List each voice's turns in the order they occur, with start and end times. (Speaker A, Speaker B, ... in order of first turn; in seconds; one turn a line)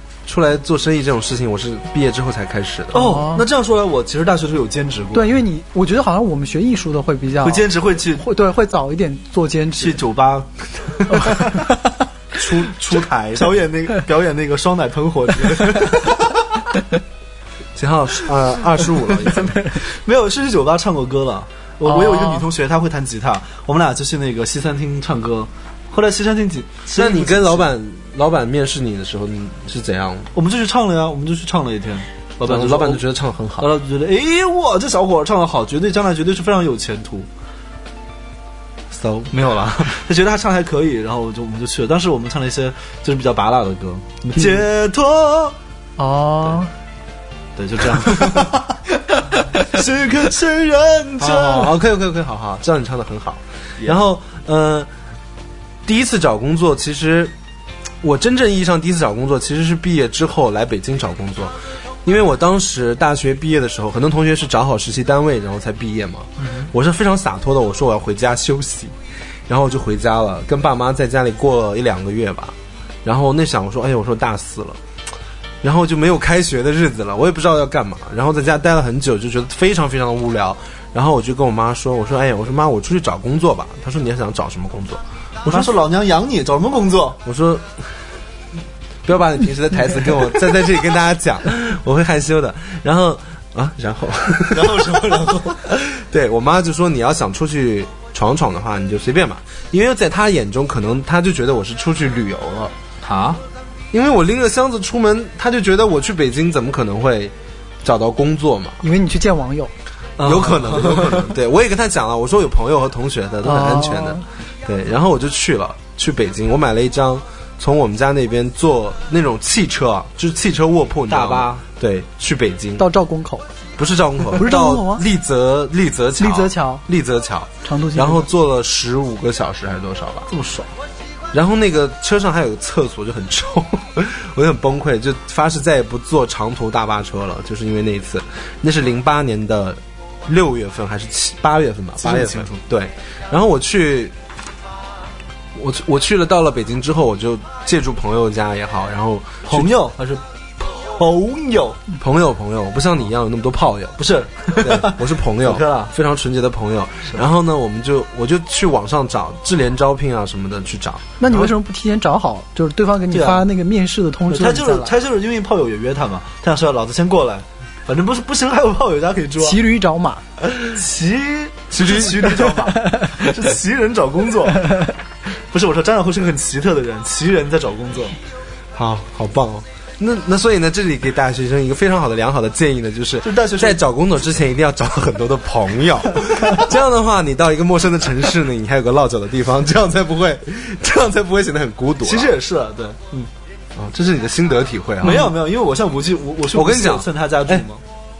Speaker A: 0.2-3.1
Speaker B: 2.9-3.4
Speaker C: 2.9-5.3
Speaker B: 5.1-10.0
Speaker C: 7.4-8.2
Speaker C: 9.8-11.5
Speaker B: 11.1-11.7
Speaker A: 12.3-13.6
Speaker C: 13.3-16.4
Speaker A: 17.8-19.6
Speaker C: 19.9-27.7
Speaker B: 21.9-22.4
Speaker A: 26.9-30.3
Speaker C: 30.3-33.0
Speaker A: 32.4-33.7
Speaker C: 33.6-37.3
Speaker A: 38.9-39.3
Speaker C: 39.3-45.5
Speaker B: 46.0-46.7
Speaker C: 47.5-51.8
Speaker A: 51.2-54.9
Speaker A: 55.9-57.3
Speaker A: 58.0-68.9
Speaker C: 66.4-66.7
Speaker A: 69.5-74.8
Speaker A: 75.6-85.7
Speaker C: 85.5-87.2
Speaker A: 87.2-87.7
Speaker A: 89.0-102.7
Speaker C: 94.5-95.6
Speaker C: 103.0-103.4
Speaker A: 103.9-108.8
Speaker B: 108.8-109.7
Speaker C: 110.2-111.3
Speaker A: 110.2-122.8
Speaker B: 113.4-114.2
Speaker C: 121.1-121.6
Speaker B: 122.8-123.4
Speaker A: 123.8-130.3
Speaker B: 124.3-125.0
Speaker B: 126.2-126.8
Speaker B: 127.6-128.3
Speaker C: 130.3-130.7
Speaker A: 131.3-144.1
Speaker C: 142.0-142.6
Speaker A: 145.5-149.7
Speaker C: 149.5-151.8
Speaker A: 152.0-161.5
Speaker C: 154.0-155.9
Speaker B: 161.2-164.9
Speaker C: 163.1-163.4
Speaker C: 164.3-169.6
Speaker B: 169.4-170.2
Speaker C: 170.6-174.9
Speaker A: 171.7-172.3
Speaker C: 175.5-178.2
Speaker A: 178.7-192.3
Speaker C: 183.2-183.8
Speaker C: 192.0-193.3
Speaker A: 193.8-195.3
Speaker C: 195.0-197.8
Speaker A: 196.5-197.6